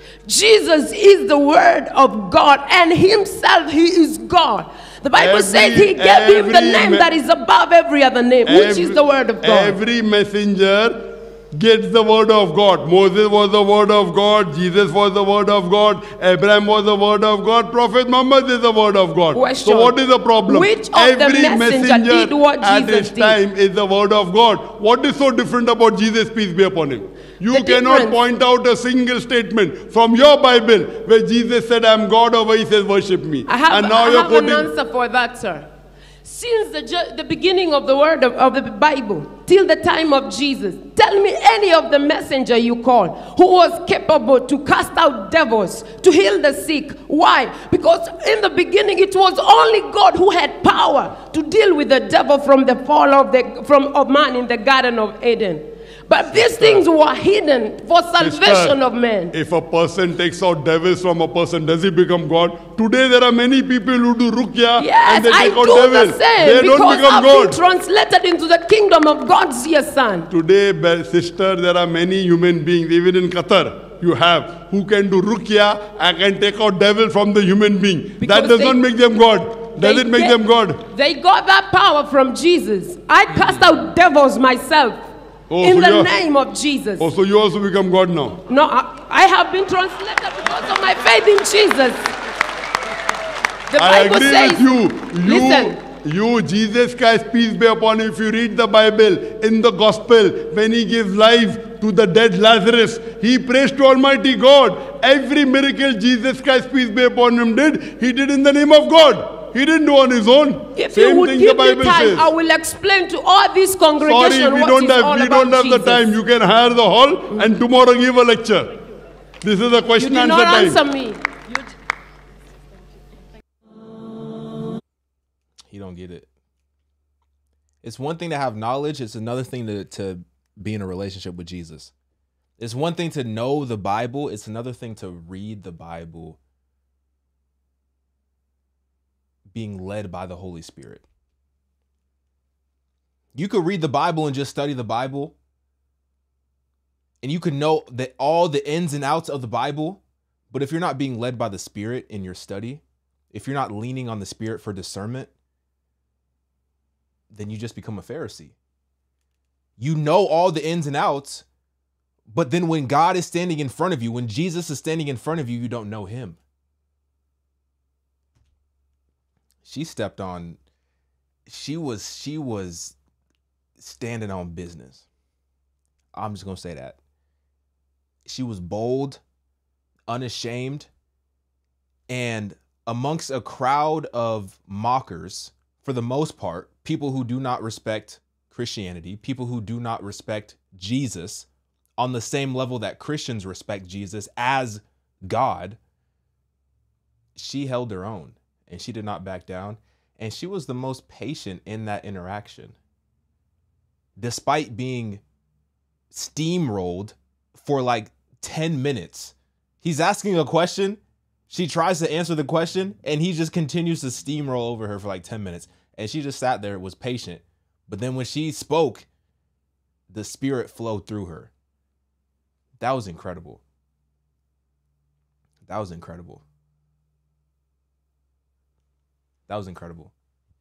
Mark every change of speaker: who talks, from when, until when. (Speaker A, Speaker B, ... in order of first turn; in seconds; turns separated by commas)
Speaker A: 0.2-9.8, Speaker B: 5.2-7.1, Speaker B: 8.5-34.7, Speaker A: 19.3-19.9, Speaker A: 20.5-23.4, Speaker A: 27.5-28.2, Speaker A: 33.5-35.7, Speaker A: 36.2-59.3, Speaker B: 56.3-56.9, Speaker B: 58.2-58.8, Speaker B: 59.3-67.6, Speaker A: 64.8-70.3, Speaker B: 70.3-80.8, Speaker A: 78.2-78.8, Speaker A: 79.8-80.4, Speaker A: 80.9-85.0, Speaker B: 85.5-86.1, Speaker A: 85.6-87.1, Speaker B: 87.0-88.4, Speaker A: 88.5-92.1, Speaker A: 93.7-95.8, Speaker B: 93.8-112.3, Speaker A: 110.8-116.1, Speaker B: 114.0-118.7, Speaker B: 119.4-120.8, Speaker A: 120.0-121.6, Speaker C: 125.7-126.3, Speaker C: 127.8-131.9, Speaker C: 132.6-136.4, Speaker C: 139.5-141.1, Speaker C: 143.3-145.3, Speaker C: 147.2-155.3, Speaker C: 157.3-158.6, Speaker C: 159.8-161.4, Speaker C: 162.3-166.4, Speaker C: 169.6-170.6, Speaker C: 171.5-172.9, Speaker C: 173.8-175.1, Speaker C: 176.1-177.0, Speaker C: 178.3-179.2, Speaker C: 180.1-180.9, Speaker C: 182.1-195.8, Speaker C: 197.4-202.8, Speaker C: 204.2-205.2, Speaker C: 206.1-219.1, Speaker C: 220.1-221.5, Speaker C: 222.8-223.6, Speaker C: 225.7-226.4, Speaker C: 229.5-230.1